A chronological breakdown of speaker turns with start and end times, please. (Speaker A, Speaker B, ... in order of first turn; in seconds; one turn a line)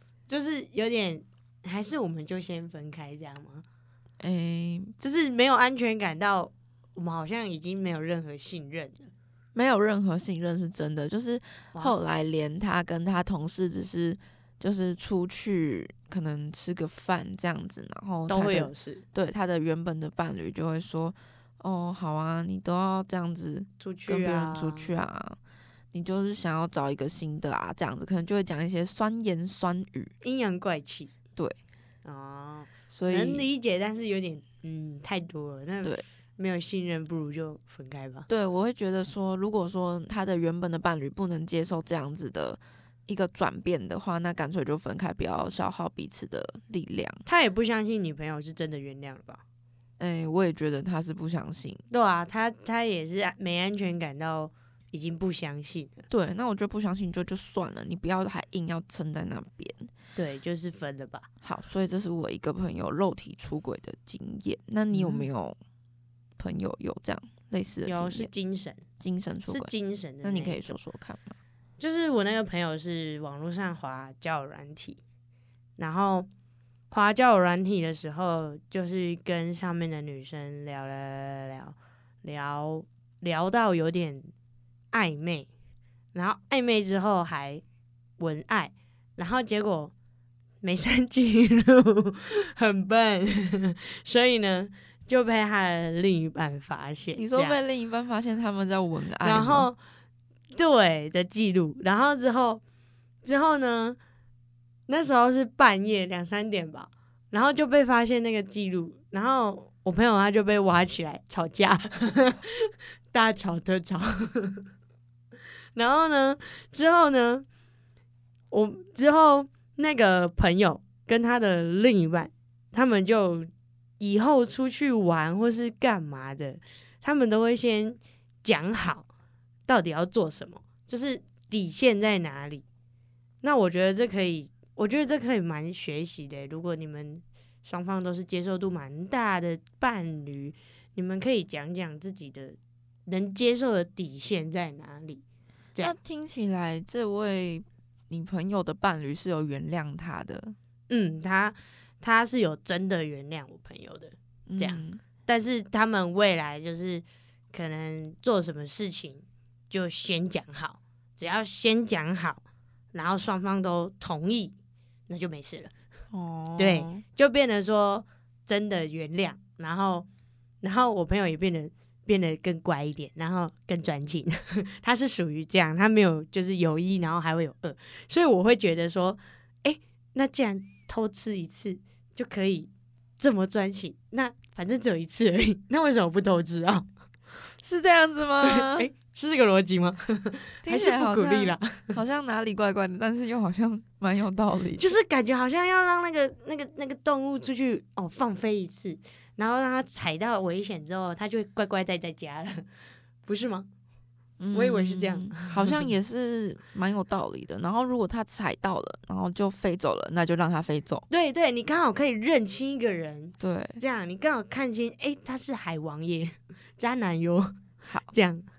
Speaker A: 0.3-3.6
Speaker B: 4.2-4.9
Speaker A: 5.0-9.1
Speaker B: 9.6-25.4
Speaker A: 18.3-19.0
Speaker A: 23.8-24.9
Speaker B: 25.9-30.1
Speaker A: 30.2-31.1
Speaker A: 32.0-38.3
Speaker B: 32.9-33.5
Speaker B: 38.3-47.2
Speaker A: 47.3-49.4
Speaker B: 50.0-51.8
Speaker A: 51.9-56.0
Speaker B: 56.1-59.9
Speaker A: 60.2-61.3
Speaker B: 61.4-65.6
Speaker A: 64.9-65.3
Speaker B: 66.4-68.3
Speaker A: 67.9-68.8
Speaker B: 69.0-69.7
Speaker A: 69.5-70.8
Speaker B: 70.2-71.4
Speaker A: 71.8-75.0
Speaker A: 75.8-76.3
Speaker A: 76.9-84.3
Speaker A: 84.9-85.5
Speaker A: 86.1-87.6
Speaker A: 88.2-89.9
Speaker A: 90.6-97.6
Speaker B: 97.2-99.7
Speaker A: 99.2-99.8
Speaker A: 100.5-102.6
Speaker A: 103.2-104.0
Speaker A: 104.9-114.6
Speaker A: 115.8-117.5
Speaker A: 118.5-129.1
Speaker A: 129.7-132.6
Speaker A: 133.4-145.2
Speaker B: 145.8-150.6
Speaker A: 150.9-162.4
Speaker B: 154.5-155.0
Speaker A: 162.9-164.6
Speaker A: 165.1-165.7
Speaker B: 166.1-167.0
Speaker A: 166.6-170.1
Speaker A: 170.6-186.9
Speaker B: 187.6-188.9
Speaker A: 188.4-192.0
Speaker B: 190.6-194.9
Speaker A: 194.8-202.7
Speaker A: 203.2-203.7
Speaker B: 204.4-211.1
Speaker A: 204.5-205.9
Speaker A: 211.1-217.5
Speaker B: 213.4-213.8
Speaker A: 218.1-218.5